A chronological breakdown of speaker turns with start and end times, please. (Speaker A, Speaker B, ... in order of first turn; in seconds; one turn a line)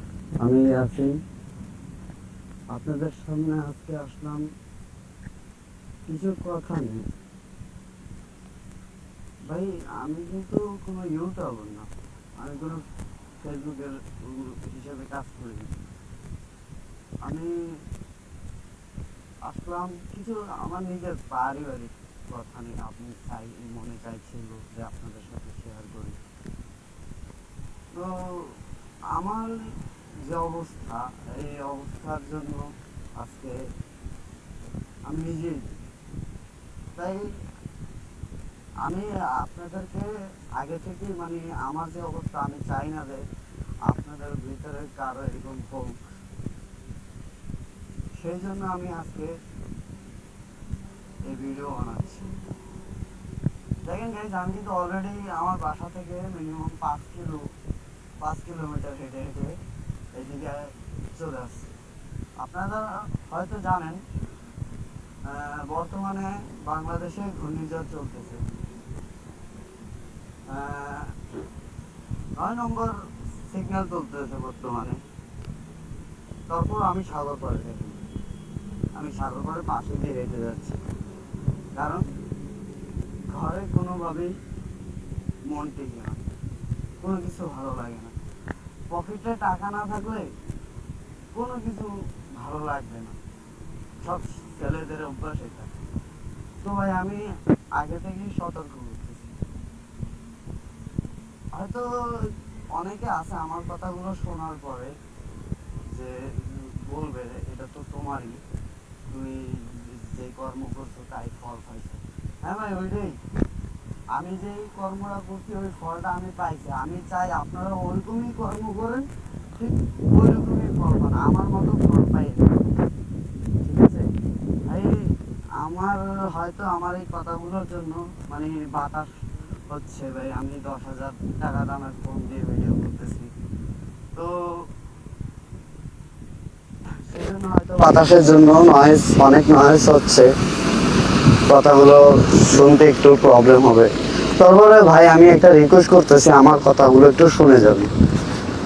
Speaker A: 0.4-1.2
Speaker A: 2.7-4.5
Speaker A: 6.1-7.1
Speaker A: 9.5-12.8
Speaker A: 13.4-15.8
Speaker A: 17.2-17.7
Speaker A: 19.4-26.2
Speaker A: 27.9-28.6
Speaker A: 29.1-33.6
Speaker A: 35.1-35.7
Speaker A: 37.0-37.3
Speaker A: 38.8-43.3
Speaker A: 43.9-46.0
Speaker A: 48.2-49.3
Speaker A: 51.3-52.3
Speaker A: 53.8-57.5
Speaker A: 58.2-59.6
Speaker A: 60.1-61.7
Speaker A: 62.4-64.0
Speaker A: 65.2-68.4
Speaker A: 70.5-71.2
Speaker A: 72.4-75.0
Speaker A: 76.5-78.0
Speaker A: 79.0-80.8
Speaker A: 81.8-82.0
Speaker A: 83.3-84.3
Speaker A: 85.5-86.2
Speaker A: 87.0-88.1
Speaker A: 88.9-90.3
Speaker A: 91.3-93.2
Speaker A: 94.0-95.7
Speaker A: 96.6-97.2
Speaker A: 97.8-99.3
Speaker A: 101.5-105.0
Speaker A: 105.9-108.4
Speaker A: 109.1-113.2
Speaker A: 114.1-122.9
Speaker A: 123.6-124.2
Speaker A: 124.7-129.1
Speaker A: 129.7-133.3
Speaker A: 134.2-134.7
Speaker A: 137.0-140.3
Speaker A: 141.5-147.9